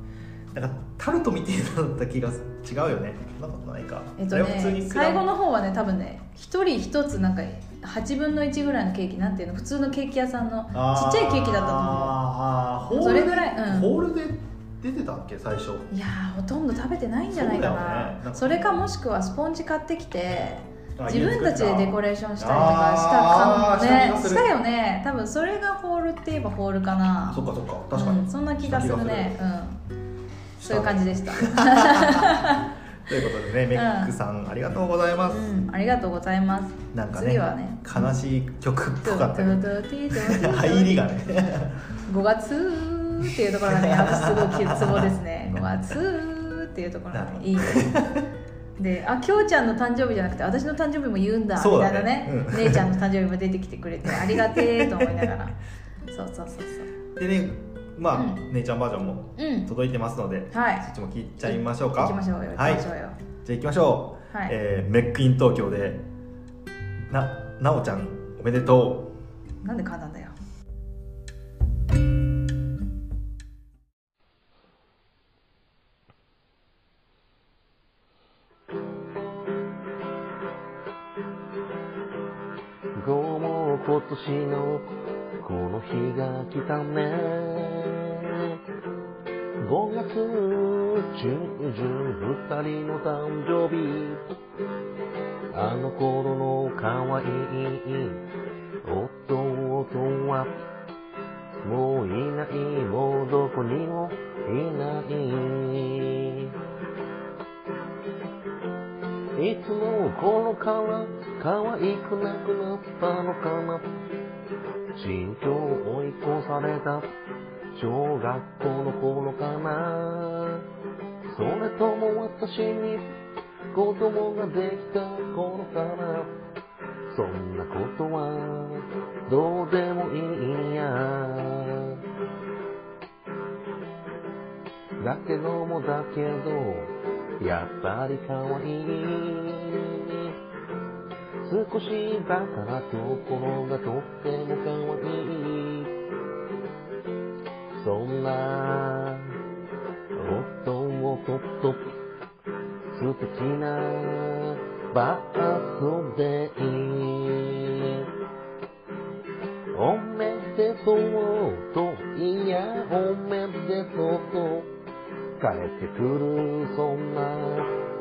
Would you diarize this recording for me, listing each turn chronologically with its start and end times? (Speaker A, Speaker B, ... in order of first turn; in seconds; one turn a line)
Speaker A: 0.5-5.2
Speaker B: 4.2-12.2
Speaker A: 10.7-15.9
Speaker B: 12.9-13.9
Speaker B: 15.9-29.8
Speaker A: 17.3-18.7
Speaker A: 21.0-24.5
Speaker A: 27.3-29.4
Speaker A: 30.6-32.5
Speaker B: 30.6-32.7
Speaker A: 33.1-35.5
Speaker B: 33.7-34.1
Speaker B: 35.3-38.0
Speaker A: 36.9-41.8
Speaker B: 39.0-41.0
Speaker B: 42.1-47.9
Speaker A: 43.2-45.1
Speaker A: 47.1-48.2
Speaker B: 48.8-55.6
Speaker A: 51.5-52.9
Speaker A: 54.3-55.2
Speaker B: 56.1-56.9
Speaker A: 57.2-62.8
Speaker B: 58.1-58.4
Speaker B: 59.4-59.7
Speaker B: 60.5-60.9
Speaker B: 61.4-63.2
Speaker A: 63.4-66.0
Speaker B: 64.3-64.5
Speaker A: 67.1-69.1
Speaker B: 69.6-70.3
Speaker C: 83.0-84.9
Speaker C: 85.4-88.6
Speaker C: 89.6-94.2
Speaker C: 95.5-98.2
Speaker C: 98.8-100.5
Speaker C: 101.6-106.5
Speaker C: 109.3-113.8
Speaker C: 115.0-117.1
Speaker C: 117.8-120.6
Speaker C: 121.3-123.0
Speaker C: 123.7-126.3
Speaker C: 127.1-132.0
Speaker C: 135.0-140.3
Speaker C: 141.4-145.9
Speaker C: 147.8-149.3
Speaker C: 150.2-151.9
Speaker C: 152.9-158.0
Speaker C: 159.7-164.7
Speaker C: 165.4-167.7